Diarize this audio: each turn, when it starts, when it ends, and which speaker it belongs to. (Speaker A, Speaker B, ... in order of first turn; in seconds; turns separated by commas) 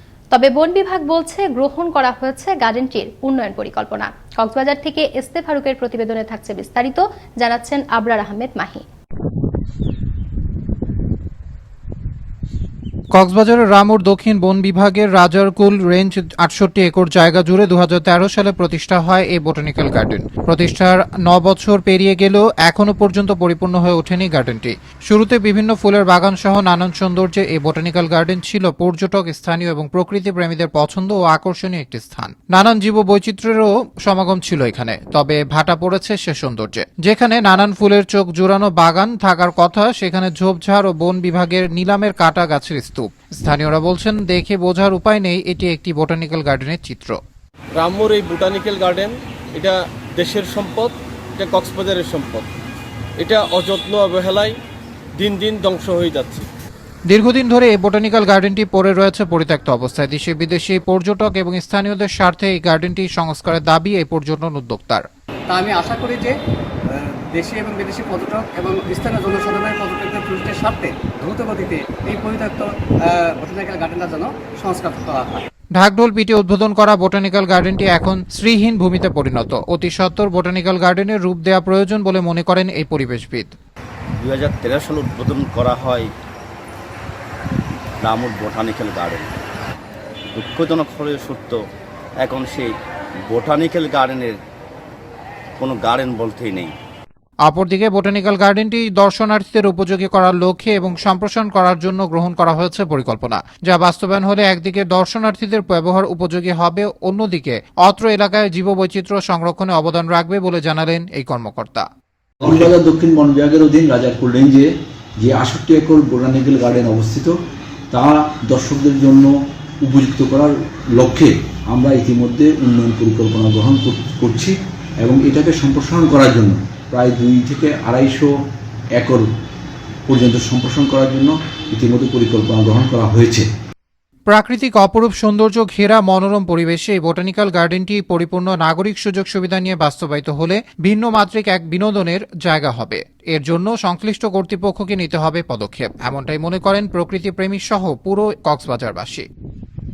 Speaker A: 0.3-8.8, Speaker B: 13.1-47.2, Speaker C: 47.8-52.5, Speaker C: 53.2-54.6, Speaker C: 55.2-56.5, Speaker B: 57.1-65.0, Speaker D: 65.5-66.3, Speaker D: 66.9-75.4, Speaker B: 75.8-83.5, Speaker E: 84.2-86.1, Speaker E: 88.0-89.3, Speaker E: 90.3-91.6, Speaker E: 92.2-92.7, Speaker E: 93.3-94.3, Speaker E: 95.6-96.7, Speaker B: 97.5-111.9, Speaker F: 112.4-114.7, Speaker F: 115.2-117.3, Speaker F: 117.9-119.3, Speaker F: 119.8-128.3, Speaker F: 128.9-129.3, Speaker F: 130.1-133.5, Speaker B: 134.3-149.3